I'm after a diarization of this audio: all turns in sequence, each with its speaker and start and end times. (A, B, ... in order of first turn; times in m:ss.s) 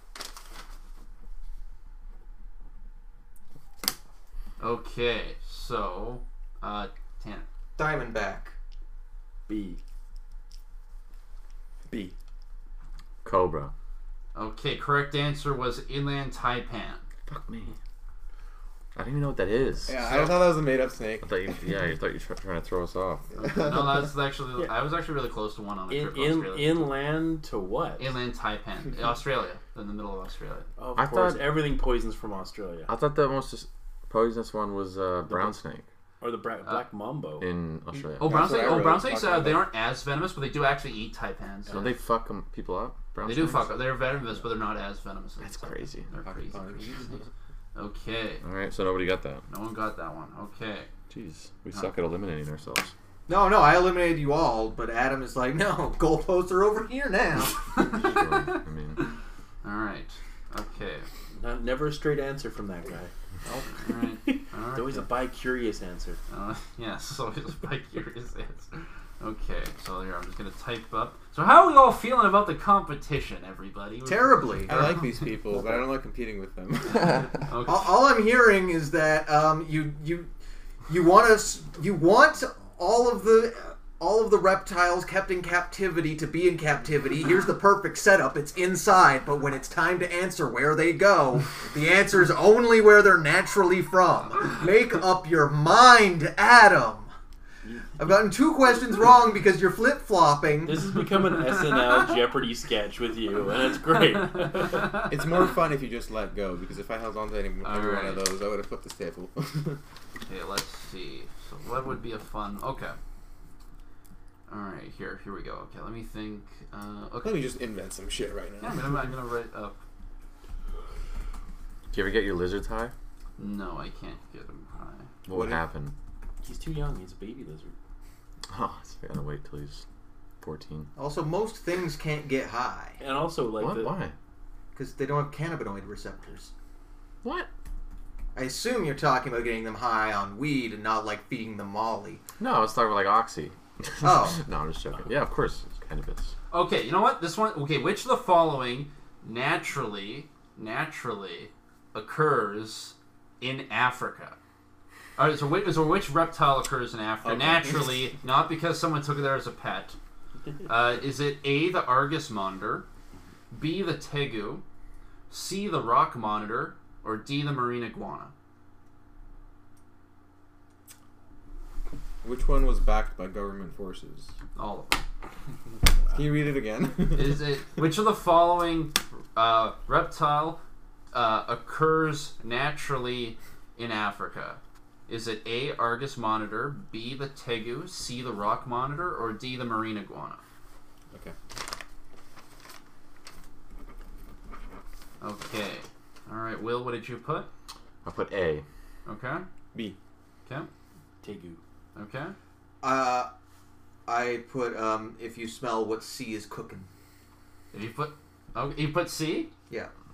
0:04.6-0:07.4 A
0:07.8-0:08.6 B
0:09.5-0:09.8 C
0:11.9-0:12.1 D
0:13.2-0:13.7 E
0:14.4-0:17.0 A
0:17.3-0:17.8 E
0:18.9-0:19.9 E
0:19.8-0:21.3 D
0:20.0-0:20.5 A
0:21.2-0:23.3 E
0:23.4-0:26.8 A
0:25.9-0:28.1 C
0:28.0-0:30.7 A
0:30.8-0:32.9 C
0:31.0-0:31.6 E
0:32.9-0:35.8 E
0:35.3-0:35.6 C
0:36.2-0:37.4 C
0:37.4-0:38.5 E
0:37.9-0:39.6 D
0:38.2-0:41.9 A
0:41.7-0:43.8 E
0:43.2-0:47.2 A
0:45.4-0:46.1 E
0:46.2-0:47.2 D
0:47.7-0:48.4 A
0:48.4-0:49.4 E
0:49.5-0:50.9 A
0:51.1-0:52.9 E
0:53.3-0:57.6 B
0:57.7-1:01.1 A
0:57.8-0:59.0 E
1:01.4-1:06.2 C
1:03.7-1:05.1 A
1:06.3-1:15.0 A
1:14.1-1:14.9 B
1:14.7-1:17.4 D
1:17.4-1:17.9 A
1:17.6-1:20.3 B
1:20.9-1:37.1 B
1:37.6-1:38.0 C
1:38.0-1:40.9 B
1:40.6-1:44.9 C
1:44.6-1:45.0 A
1:44.8-1:49.8 D
1:47.6-1:48.2 A
1:50.3-1:53.0 A
1:54.5-1:57.4 A
1:57.2-1:58.9 D
1:58.6-1:59.8 A
2:01.9-2:02.9 E
2:03.4-2:05.1 A
2:05.2-2:05.9 E
2:05.3-2:05.6 D
2:06.4-2:07.7 C
2:08.5-2:09.8 E
2:10.4-2:10.9 E
2:11.0-2:13.0 B
2:13.0-2:14.0 C
2:13.6-2:14.1 E
2:14.7-2:16.5 B
2:17.2-2:17.5 E
2:18.4-2:22.2 B
2:22.4-2:26.3 E
2:24.0-2:24.4 B
2:26.5-2:34.4 A
2:35.2-2:40.0 A
2:37.2-2:38.0 D
2:40.6-2:42.8 A
2:43.5-2:44.6 A
2:45.3-2:48.3 A
2:52.2-2:54.3 D
2:54.6-2:55.0 A
2:56.1-2:57.5 D
2:57.1-3:00.6 A
3:01.1-3:10.4 A
3:15.2-3:17.5 A
3:18.0-3:18.6 E
3:19.1-3:19.4 A
3:21.2-3:21.6 C
3:21.9-3:22.4 A
3:22.8-3:23.3 B
3:24.1-3:26.9 B
3:27.7-3:29.5 A